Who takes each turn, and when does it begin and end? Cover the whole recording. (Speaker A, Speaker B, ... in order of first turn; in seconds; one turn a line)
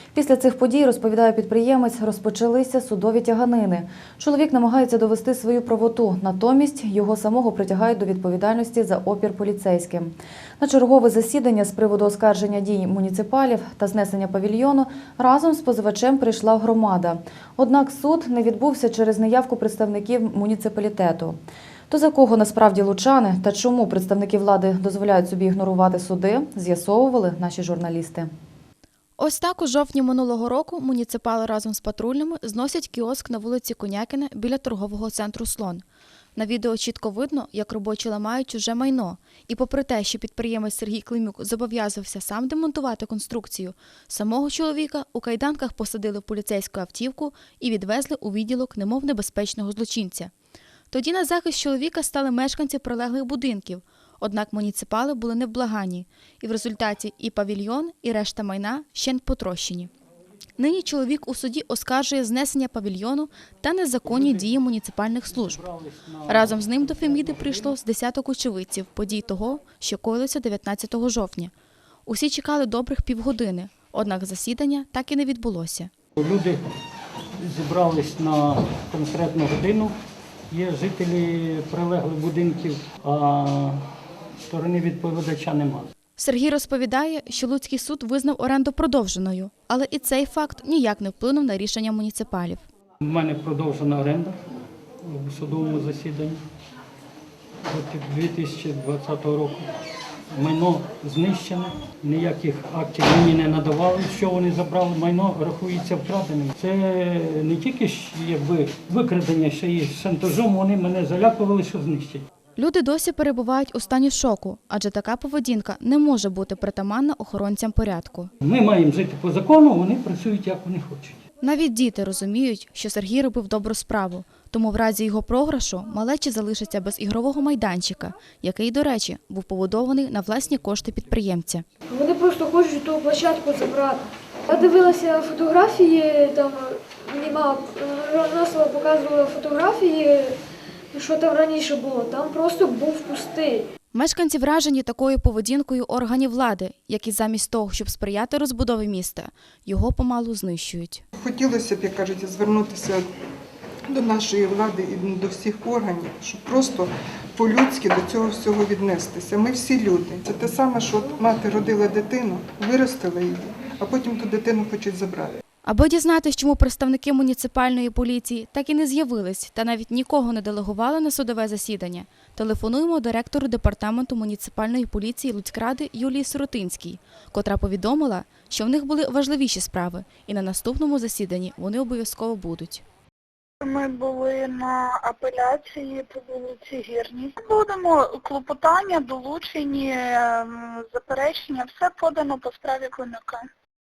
Speaker A: 0.1-21.4
Speaker A: 21.9-28.3
Speaker B: 29.2-35.8
Speaker B: 36.4-50.3
Speaker B: 50.9-59.9
Speaker B: 60.6-64.6
Speaker C: 64.0-64.6
Speaker A: 64.9-65.3
Speaker C: 65.2-67.8
Speaker B: 66.3-67.8
Speaker B: 68.4-71.5
Speaker B: 72.1-75.9
Speaker C: 76.2-76.6
Speaker C: 77.4-79.9
Speaker C: 80.5-83.8
Speaker C: 84.5-85.9
Speaker B: 86.2-92.6
Speaker C: 93.0-94.3
Speaker C: 95.0-96.4
Speaker C: 97.7-99.6
Speaker C: 100.3-112.2
Speaker B: 112.6-118.3
Speaker C: 118.4-121.2
Speaker B: 121.4-131.6
Speaker D: 131.9-140.3
Speaker D: 140.9-143.6
Speaker B: 143.9-151.0
Speaker E: 151.1-153.0
Speaker E: 153.9-165.4
Speaker B: 165.7-182.8
Speaker F: 183.6-193.4